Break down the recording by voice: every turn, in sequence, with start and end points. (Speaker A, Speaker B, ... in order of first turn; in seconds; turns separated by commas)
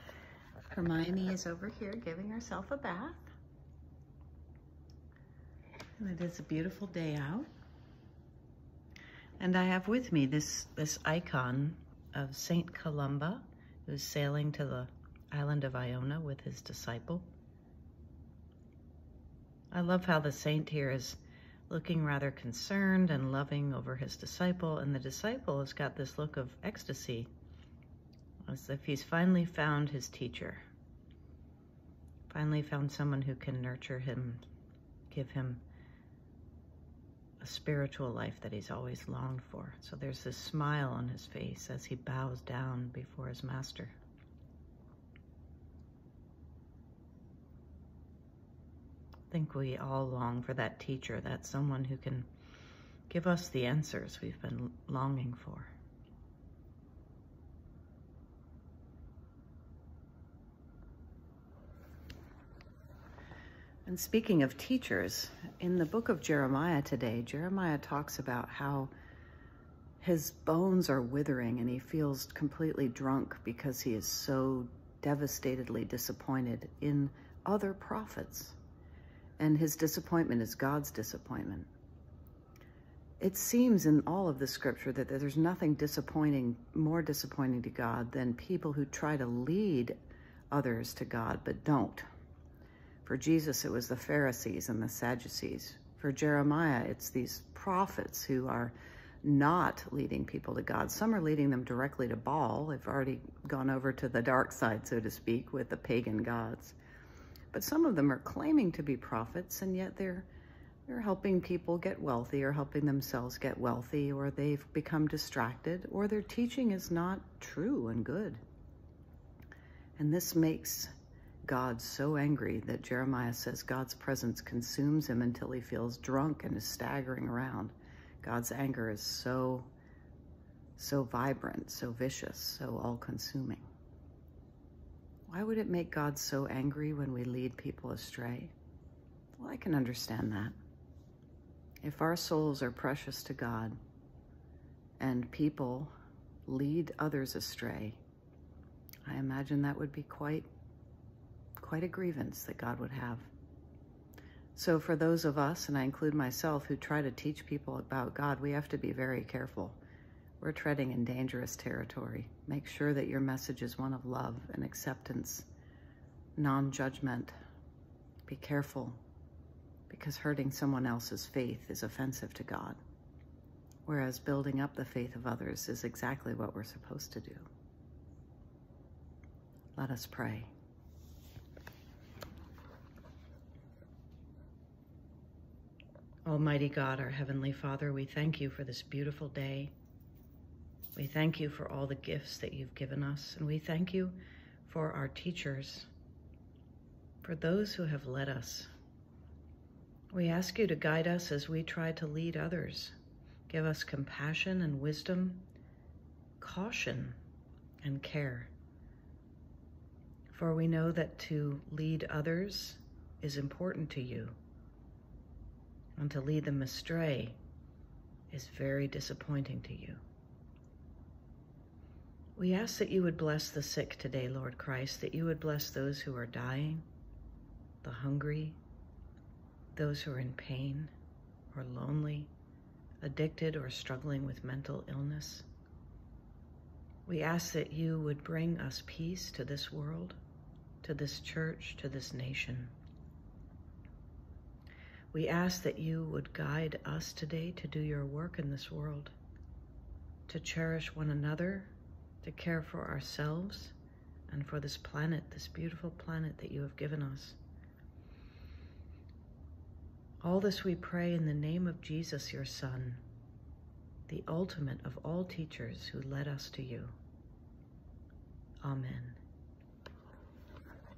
Speaker A: 0.7-3.2, Speaker A: 6.0-7.5, Speaker A: 9.4-17.3, Speaker A: 19.7-27.3, Speaker A: 28.4-30.6, Speaker A: 32.3-34.4, Speaker A: 35.1-35.6, Speaker A: 37.4-44.0, Speaker A: 49.3-52.3, Speaker A: 53.1-55.7, Speaker A: 63.9-68.9, Speaker A: 70.0-78.5, Speaker A: 79.4-81.7, Speaker A: 83.2-90.0, Speaker A: 90.5-92.0, Speaker A: 93.0-106.8, Speaker A: 107.5-110.3, Speaker A: 110.9-118.4, Speaker A: 120.0-120.9, Speaker A: 121.4-129.7, Speaker A: 130.8-133.6, Speaker A: 135.3-138.5, Speaker A: 139.4-140.5, Speaker A: 141.8-143.8, Speaker A: 145.0-145.9, Speaker A: 146.4-148.0, Speaker A: 149.1-150.5, Speaker A: 151.6-153.3, Speaker A: 154.5-159.8, Speaker A: 160.4-165.5, Speaker A: 166.4-167.3, Speaker A: 168.2-169.0, Speaker A: 169.9-172.8, Speaker A: 173.8-177.5, Speaker A: 179.8-180.5, Speaker A: 186.2-189.7, Speaker A: 190.9-195.9, Speaker A: 197.2-198.7, Speaker A: 200.1-202.9, Speaker A: 203.5-205.5, Speaker A: 206.4-207.2, Speaker A: 207.8-208.5, Speaker A: 210.3-214.4, Speaker A: 216.0-217.4, Speaker A: 218.3-220.0, Speaker A: 222.3-226.8, Speaker A: 227.8-228.6, Speaker A: 229.7-230.9, Speaker A: 231.5-232.3, Speaker A: 233.0-235.4, Speaker A: 237.1-240.2, Speaker A: 240.8-242.7, Speaker A: 245.1-249.1, Speaker A: 250.3-253.7, Speaker A: 254.3-257.4, Speaker A: 260.2-263.0, Speaker A: 264.1-266.9, Speaker A: 268.6-269.2